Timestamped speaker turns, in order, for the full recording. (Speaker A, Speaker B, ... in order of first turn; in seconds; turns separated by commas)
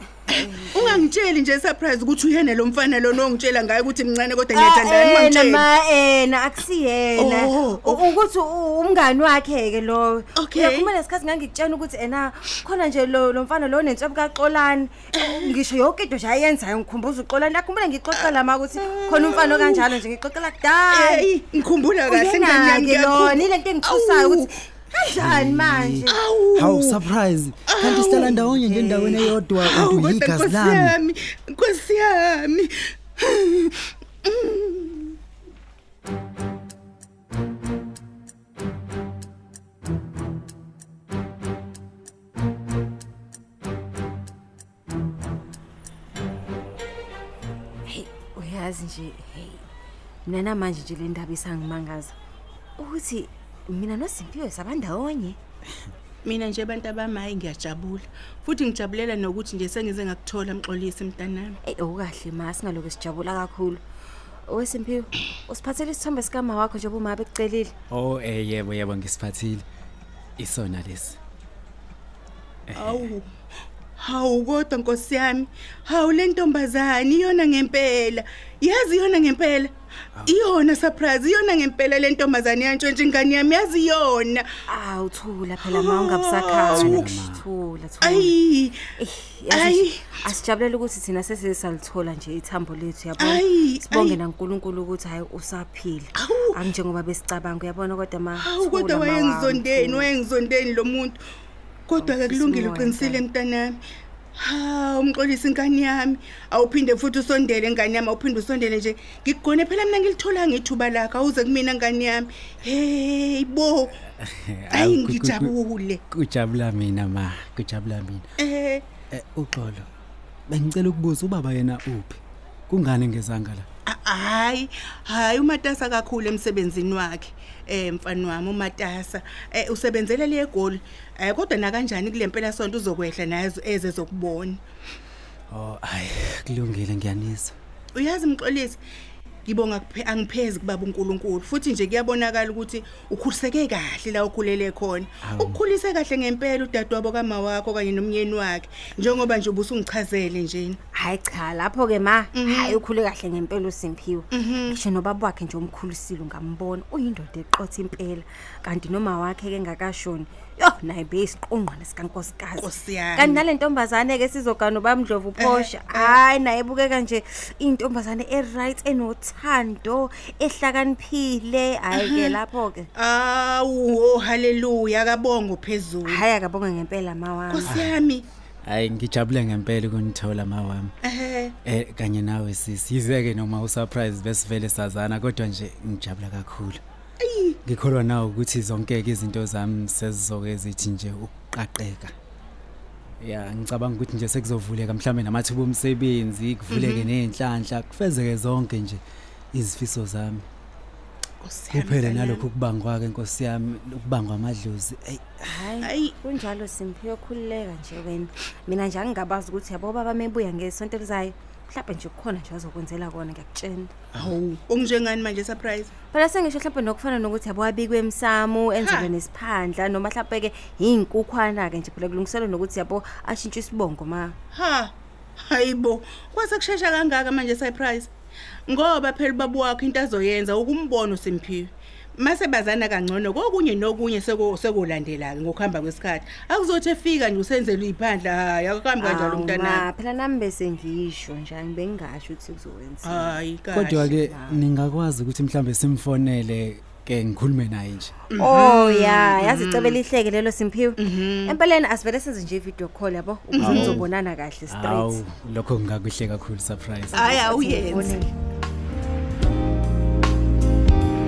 Speaker A: 0.3-1.1, Speaker B: 0.3-5.6, Speaker A: 4.5-21.3, Speaker B: 7.2-8.1, Speaker B: 10.4-10.9, Speaker B: 15.2-15.5, Speaker B: 18.8-19.9, Speaker B: 20.9-24.5, Speaker A: 22.1-26.2, Speaker C: 25.1-30.9, Speaker B: 26.1-27.0, Speaker B: 27.7-35.1, Speaker A: 47.9-49.6, Speaker A: 50.2-52.1, Speaker A: 52.8-55.4, Speaker B: 56.2-61.6, Speaker A: 61.6-63.8, Speaker A: 64.5-67.7, Speaker C: 67.9-69.6, Speaker C: 70.4-71.2, Speaker C: 72.7-73.1, Speaker B: 72.7-73.2, Speaker B: 74.0-79.7, Speaker B: 80.2-84.5, Speaker A: 84.7-88.3, Speaker B: 85.6-87.1, Speaker C: 86.7-87.4, Speaker B: 88.0-88.8, Speaker A: 89.0-100.1, Speaker B: 89.5-90.1, Speaker B: 93.2-94.2, Speaker B: 96.2-96.5, Speaker B: 98.4-101.2, Speaker B: 101.9-103.8, Speaker A: 102.0-103.2, Speaker B: 104.4-114.0, Speaker C: 114.0-115.5, Speaker B: 114.7-116.0, Speaker C: 116.1-118.2, Speaker B: 118.4-118.8, Speaker C: 119.1-119.9, Speaker C: 120.5-123.7, Speaker B: 123.8-134.6, Speaker C: 135.5-137.6, Speaker B: 137.9-138.8, Speaker B: 139.4-150.8, Speaker C: 145.2-145.6, Speaker A: 150.9-172.9, Speaker B: 152.3-152.8, Speaker B: 154.3-154.8, Speaker B: 162.6-163.4, Speaker B: 165.4-166.2, Speaker B: 171.9-172.4, Speaker B: 172.9-176.2, Speaker A: 176.1-177.8, Speaker B: 177.5-178.2, Speaker C: 177.6-177.9, Speaker C: 178.6-180.9, Speaker B: 181.0-181.5, Speaker C: 181.6-186.8, Speaker B: 187.2-187.6, Speaker C: 187.6-192.1, Speaker C: 193.2-199.0, Speaker B: 196.7-197.1, Speaker C: 199.5-200.5, Speaker B: 201.4-202.4, Speaker C: 201.7-205.5, Speaker A: 205.5-213.9, Speaker B: 205.8-206.1, Speaker B: 214.1-215.9, Speaker A: 216.1-224.3, Speaker B: 218.8-219.1, Speaker B: 224.5-228.1, Speaker B: 228.7-239.8, Speaker A: 239.0-244.6, Speaker B: 243.0-244.2, Speaker C: 243.7-248.1, Speaker B: 248.3-250.0, Speaker A: 248.3-255.2, Speaker B: 251.0-251.6, Speaker B: 253.5-254.0, Speaker C: 253.6-254.1, Speaker C: 254.7-257.2, Speaker A: 257.1-258.3, Speaker B: 257.1-258.2